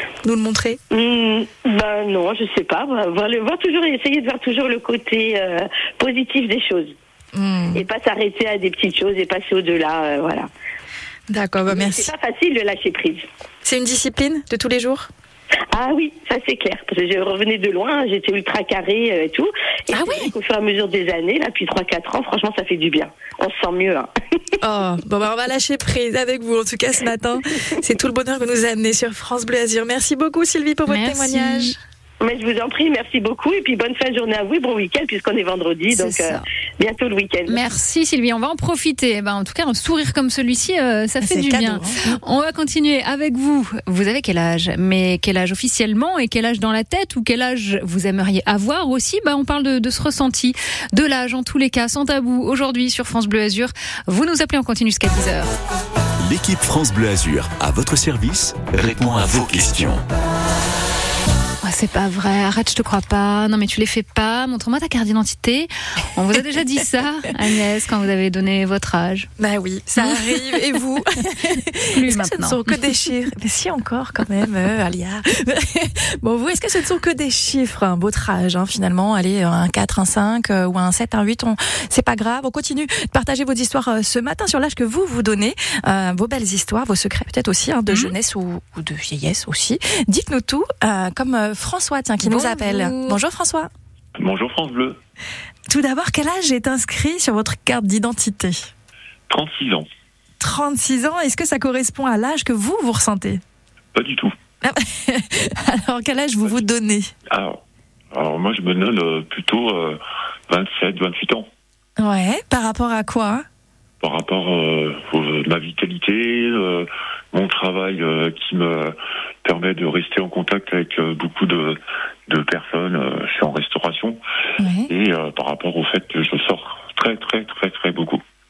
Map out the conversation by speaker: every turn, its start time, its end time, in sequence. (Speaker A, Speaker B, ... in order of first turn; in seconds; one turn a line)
Speaker A: 0.2-0.8
Speaker B: 0.9-6.9
Speaker A: 7.3-7.8
Speaker B: 7.8-10.5
Speaker A: 11.3-12.1
Speaker B: 11.7-13.2
Speaker A: 13.6-15.1
Speaker B: 15.7-24.1
Speaker A: 19.9-20.3
Speaker A: 24.6-31.8
Speaker C: 30.9-31.8
Speaker B: 32.2-37.6
Speaker C: 35.9-36.4
Speaker C: 37.5-55.5
Speaker A: 41.2-42.2
Speaker D: 56.2-60.0
Speaker C: 61.6-69.3
Speaker A: 69.4-93.7
Speaker C: 70.0-70.4
Speaker C: 71.9-72.8
Speaker C: 92.2-93.2
Speaker E: 94.2-95.0
Speaker A: 95.7-98.7
Speaker E: 99.3-99.9
Speaker A: 100.4-103.4
Speaker E: 103.9-104.3
Speaker A: 104.6-107.1
Speaker E: 107.3-107.6
Speaker E: 108.1-111.5
Speaker A: 112.0-113.4
Speaker E: 114.0-124.2
Speaker A: 124.6-124.9
Speaker E: 124.9-128.2